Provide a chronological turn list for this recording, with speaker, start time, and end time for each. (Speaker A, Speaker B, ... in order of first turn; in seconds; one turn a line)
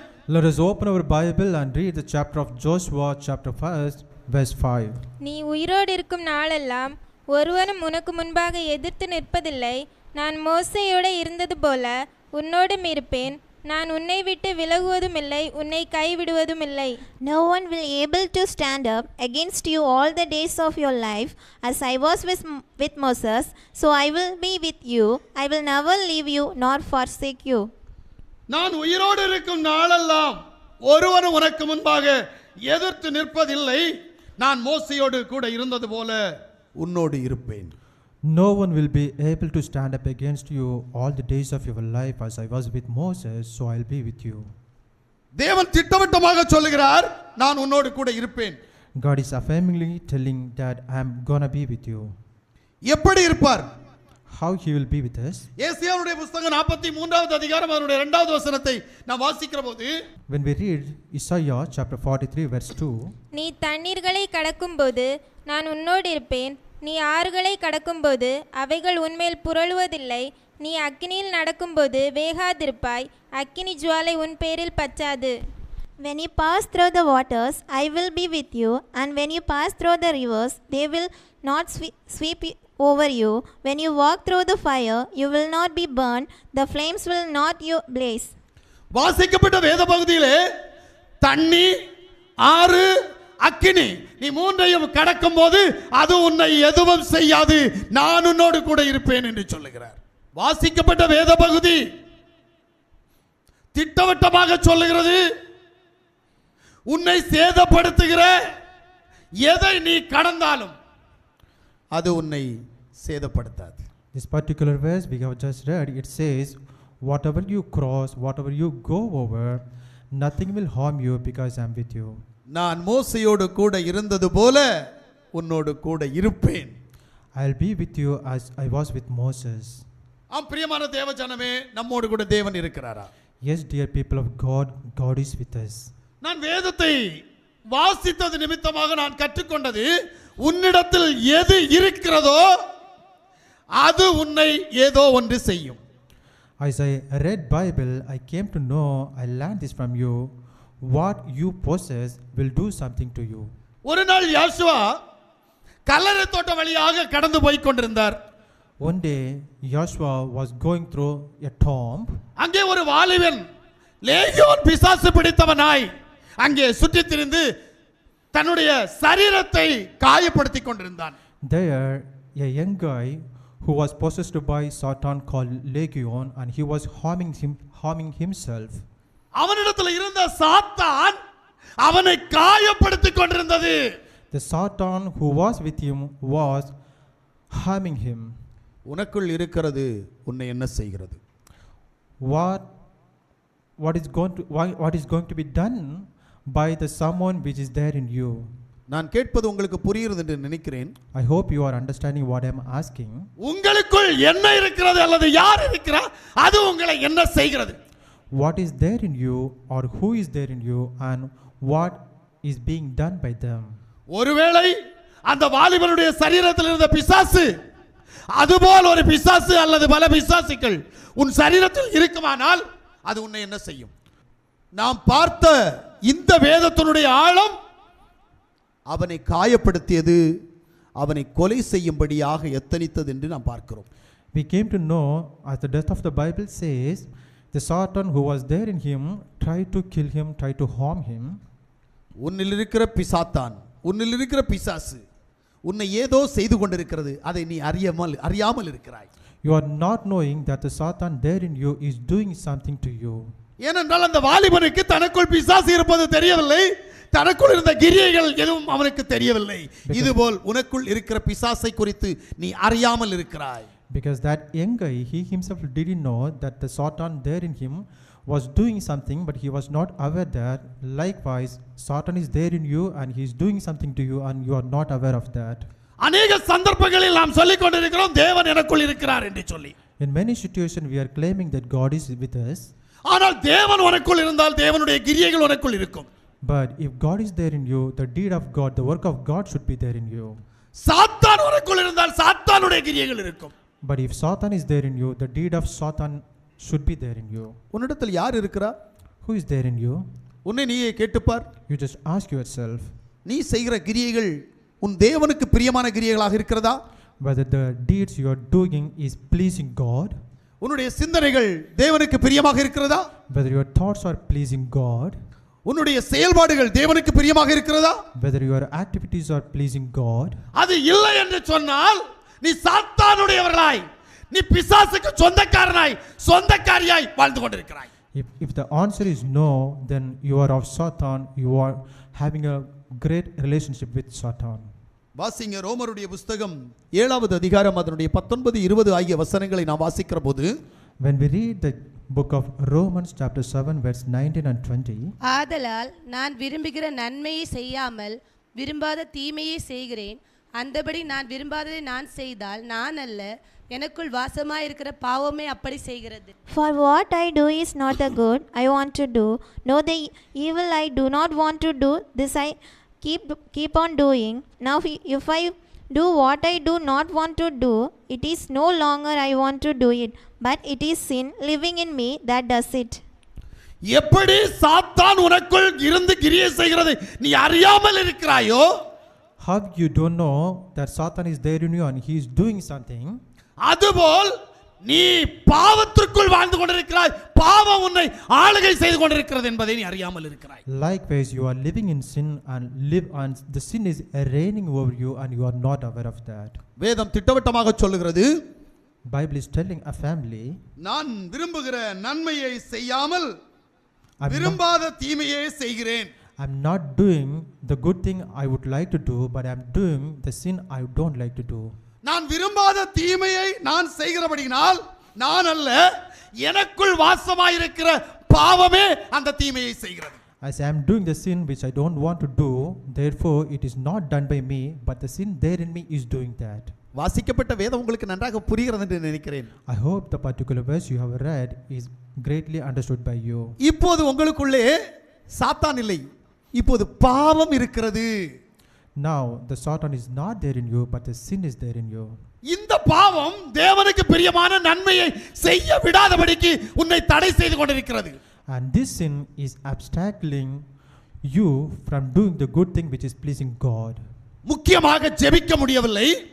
Speaker A: 0.3-5.0
Speaker B: 5.2-16.9
Speaker C: 17.2-27.7
Speaker D: 28.5-33.9
Speaker D: 34.4-36.2
Speaker D: 36.8-37.7
Speaker A: 38.3-44.5
Speaker D: 45.4-48.6
Speaker A: 49.0-52.2
Speaker D: 52.9-53.7
Speaker A: 54.3-55.5
Speaker D: 55.6-59.9
Speaker A: 60.3-63.1
Speaker B: 63.4-75.3
Speaker C: 76.0-88.3
Speaker D: 88.9-90.4
Speaker D: 91.2-91.7
Speaker D: 92.4-92.9
Speaker D: 93.4-101.8
Speaker D: 103.7-105.2
Speaker D: 106.9-108.4
Speaker D: 109.4-110.8
Speaker D: 111.9-113.8
Speaker A: 114.1-122.2
Speaker D: 122.5-124.7
Speaker D: 125.3-126.8
Speaker A: 127.3-129.8
Speaker D: 130.3-133.1
Speaker A: 133.4-135.9
Speaker D: 136.2-137.0
Speaker D: 137.7-139.9
Speaker D: 140.4-142.5
Speaker D: 143.7-145.8
Speaker A: 146.6-153.5
Speaker D: 153.8-154.9
Speaker D: 155.9-158.2
Speaker A: 158.8-162.2
Speaker D: 162.4-163.4
Speaker D: 164.0-167.5
Speaker D: 168.3-171.2
Speaker A: 171.4-178.8
Speaker D: 179.4-181.2
Speaker D: 181.8-183.8
Speaker A: 184.3-186.7
Speaker A: 187.5-188.4
Speaker D: 188.9-191.2
Speaker A: 192.2-192.7
Speaker A: 193.8-198.5
Speaker D: 198.9-200.9
Speaker A: 201.2-203.3
Speaker D: 203.4-207.8
Speaker A: 208.3-213.8
Speaker D: 214.1-217.5
Speaker D: 218.3-223.9
Speaker D: 224.8-227.6
Speaker D: 228.9-230.2
Speaker D: 231.0-233.9
Speaker A: 234.3-241.4
Speaker D: 242.2-245.0
Speaker D: 245.7-249.1
Speaker A: 249.4-253.3
Speaker D: 253.6-263.7
Speaker A: 259.9-260.2
Speaker A: 263.9-275.7
Speaker D: 276.0-279.7
Speaker A: 280.0-282.7
Speaker D: 283.1-286.1
Speaker A: 286.4-290.4
Speaker D: 290.8-293.5
Speaker A: 293.8-297.6
Speaker D: 297.7-298.7
Speaker A: 299.2-300.1
Speaker D: 300.4-301.5
Speaker A: 301.7-302.9
Speaker D: 303.3-306.8
Speaker A: 307.2-310.2
Speaker D: 310.6-313.1
Speaker A: 313.3-315.2
Speaker D: 315.6-318.0
Speaker A: 318.1-320.4
Speaker D: 320.5-327.9
Speaker A: 328.1-334.7
Speaker D: 335.2-340.5
Speaker A: 341.0-345.1
Speaker E: 345.3-356.3
Speaker C: 356.5-373.0
Speaker D: 373.9-378.7
Speaker A: 379.4-383.2
Speaker D: 383.6-384.3
Speaker D: 384.9-390.6
Speaker A: 390.7-396.6
Speaker D: 396.8-398.3
Speaker A: 399.1-400.6
Speaker D: 400.8-403.3
Speaker A: 404.2-404.6
Speaker D: 404.3-406.1
Speaker A: 406.4-411.8
Speaker D: 412.0-415.8
Speaker D: 416.4-420.2
Speaker A: 420.4-426.7
Speaker D: 427.0-429.5
Speaker A: 429.7-433.6
Speaker D: 433.6-434.7
Speaker D: 435.3-436.0
Speaker D: 436.6-438.1
Speaker A: 439.0-442.2
Speaker D: 442.5-448.2
Speaker A: 448.5-450.6
Speaker A: 451.2-454.0
Speaker D: 454.5-456.1